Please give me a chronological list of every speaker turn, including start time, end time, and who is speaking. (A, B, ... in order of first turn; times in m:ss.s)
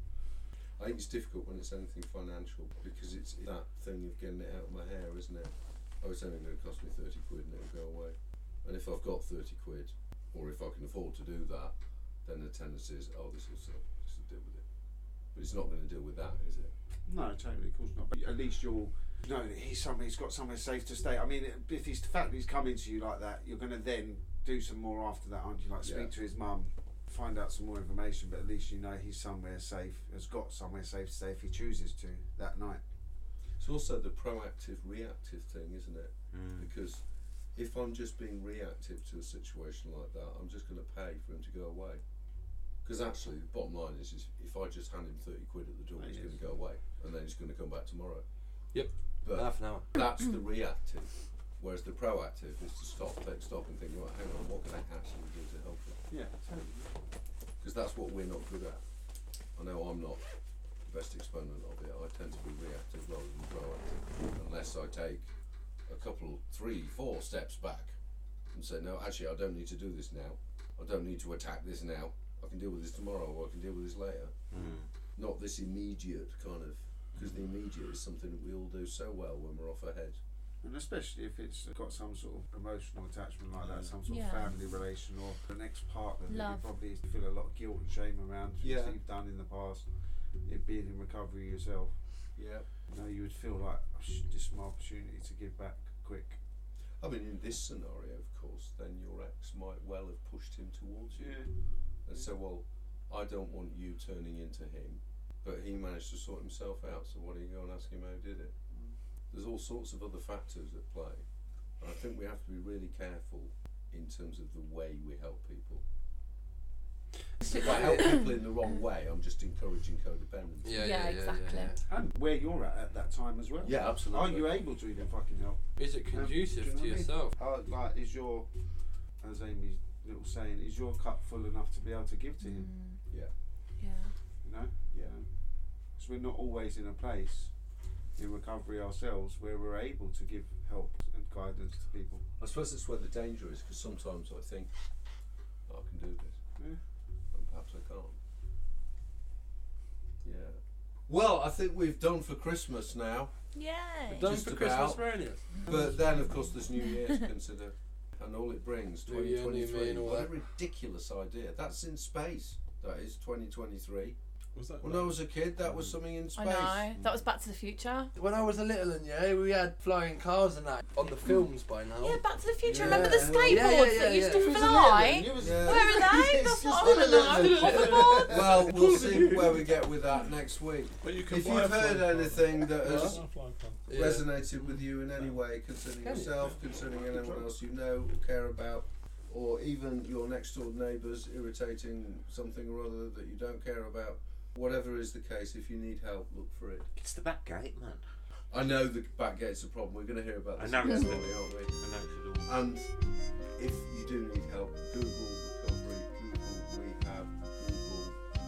0:00.8-0:14.6 A
0:15.3-0:16.7 A
0:17.1-0:32.8 B
0:25.8-0:26.1 A
0:33.6-0:37.0 A
0:36.3-0:36.7 C
0:37.6-0:42.0 A
0:42.8-0:48.2 A
0:46.0-0:46.4 B
0:48.7-0:49.9 D
0:49.2-0:56.0 A
0:56.1-0:56.9 B
0:57.6-0:58.8 A
0:59.6-1:00.2 A
1:00.8-1:05.3 A
1:05.9-1:08.0 A
1:08.5-1:14.4 A
1:14.5-1:14.9 C
1:15.2-1:20.2 A
1:20.6-1:29.9 B
1:23.6-1:24.0 E
1:24.0-1:24.6 F
1:26.3-1:26.7 F
1:28.6-1:29.0 A
1:30.4-1:32.0 B
1:32.4-1:32.7 A
1:32.9-1:36.4 B
1:37.0-1:41.4 A
1:41.2-1:41.5 B
1:42.0-1:48.5 A
1:49.3-1:51.2 A
1:51.8-1:55.8 A
1:57.4-1:58.2 D
1:57.5-2:00.9 A
2:00.6-2:01.8 D
2:00.7-2:01.8 F
2:01.9-2:08.5 B
2:03.6-2:04.6 A
2:05.8-2:07.4 D
2:09.2-2:12.7 B
2:12.4-2:13.0 F
2:13.8-2:14.1 F
2:14.4-2:15.3 B
2:16.0-2:17.5 B
2:18.2-2:22.2 B
2:22.4-2:24.7 A
2:25.7-2:26.4 A
2:27.3-2:28.2 A
2:30.2-2:33.3 A
2:33.5-2:34.3 F
2:34.1-2:35.5 D
2:34.2-2:35.1 A
2:35.7-2:44.2 A
2:36.8-2:37.2 F
2:39.1-2:40.3 D
2:44.6-2:45.2 E
2:44.8-2:47.0 A
2:46.4-2:48.1 F
2:48.2-2:54.6 D
2:52.0-2:58.2 F
2:52.9-2:53.7 A
2:54.3-2:58.6 B
2:55.4-2:56.0 A
2:56.9-2:59.6 D
2:58.2-3:03.2 A
3:01.0-3:03.9 E
3:02.8-3:03.2 D
3:03.9-3:04.4 D
3:03.9-3:16.9 A
3:06.0-3:06.4 D
3:06.8-3:07.5 B
3:17.0-3:18.0 C
3:18.5-3:21.8 A
3:20.6-3:22.5 C
3:22.4-3:22.9 A
3:23.6-3:28.2 A